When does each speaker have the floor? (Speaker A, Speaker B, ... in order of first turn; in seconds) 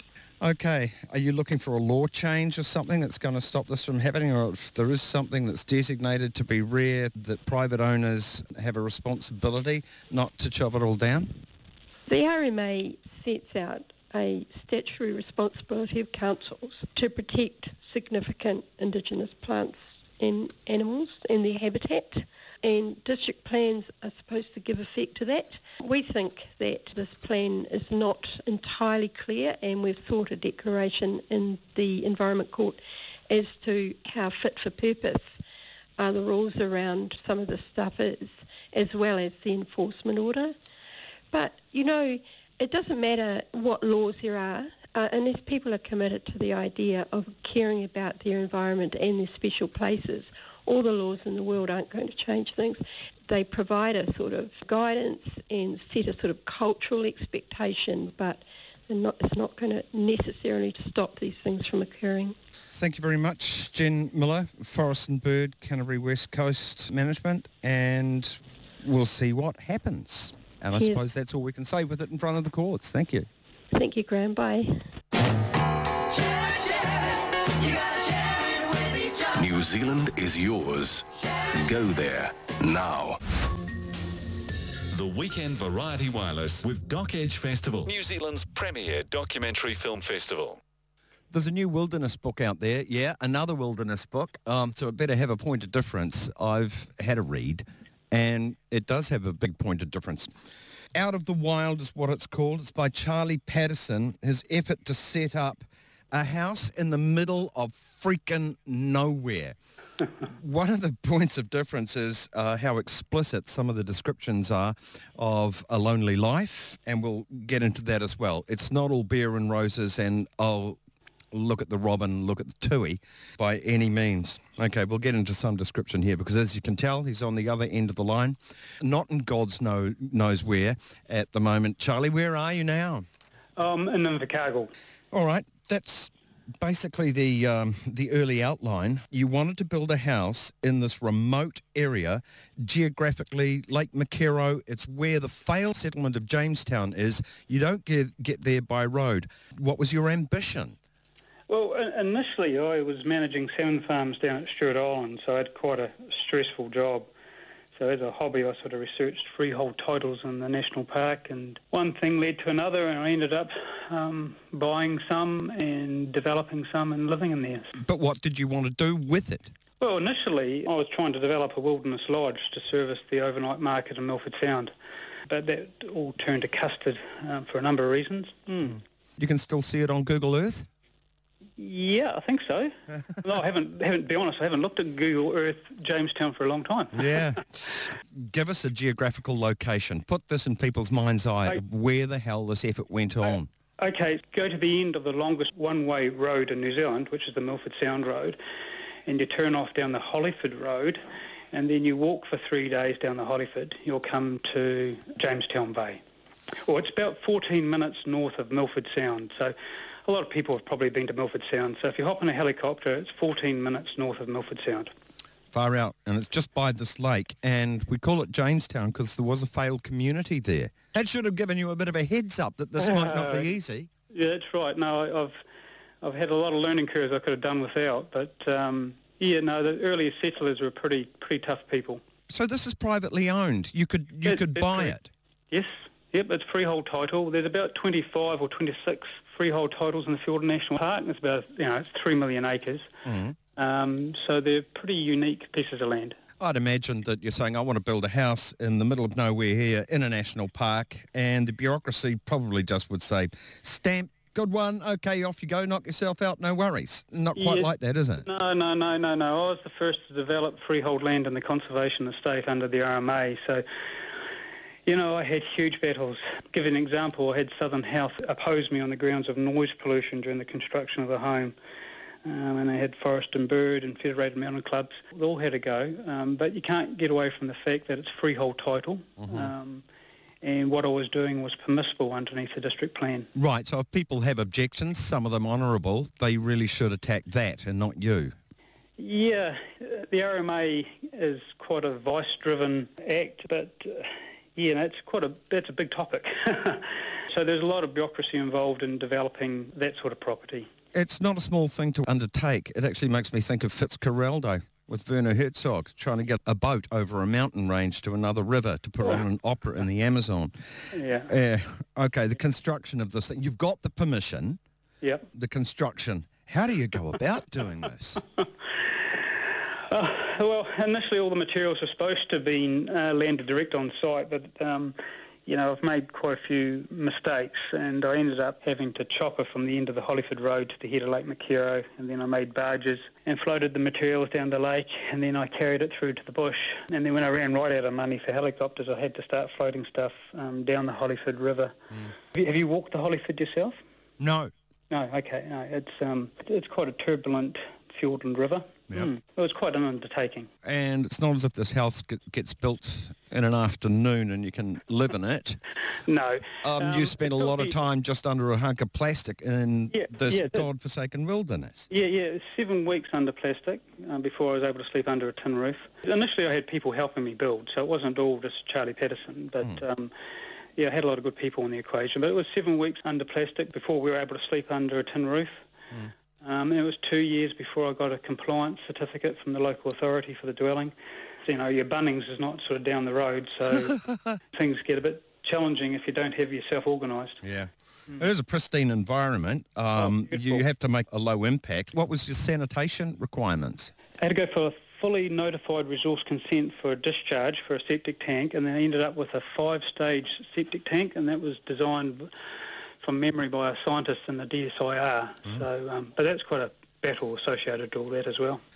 Speaker A: 0.4-11.4, 62.7-73.3, 91.3-100.4, 100.9-109.6, 110.2-120.8, 121.3-133.1, 135.1-150.8, 167.8-169.5, 179.2-180.7, 186.9-193.5, 215.5-223.9, 232.3-235.1, 243.1-243.4, 246.4-258.2, 279.2-279.5, 283.3-288.4, 300.9-314.6, 315.3-318.2, 344.2-344.5, 350.6-355.6, 356.6-361.9, 387.4-393.9
Speaker B: 12.1-35.3, 36.0-40.5, 41.3-62.4, 70.7-71.0, 73.7-74.8
Speaker C: 79.3-83.2
Speaker D: 84.9-90.6
Speaker E: 133.6-134.7, 151.5-157.1, 157.7-167.7, 169.8-174.7, 175.3-178.8, 181.6-187.3, 193.2-198.4, 199.1-206.0, 206.6-214.9, 222.8-223.5, 224.1-225.4, 226.0-232.0, 234.2-234.9, 235.5-242.9, 243.6-246.2, 257.4-257.7, 258.2-263.6, 264.9-271.6, 272.2-279.8, 280.4-283.3, 289.0-300.7, 310.9-311.3, 315.0-315.3, 319.9-341.7, 342.3-343.8, 344.9-350.5, 356.1-357.8, 359.9-360.6, 361.9-370.1, 370.8-375.6, 376.4-380.9, 381.4-384.0, 384.5-387.4, 390.0-390.6, 394.2-402.3, 403.0-408.6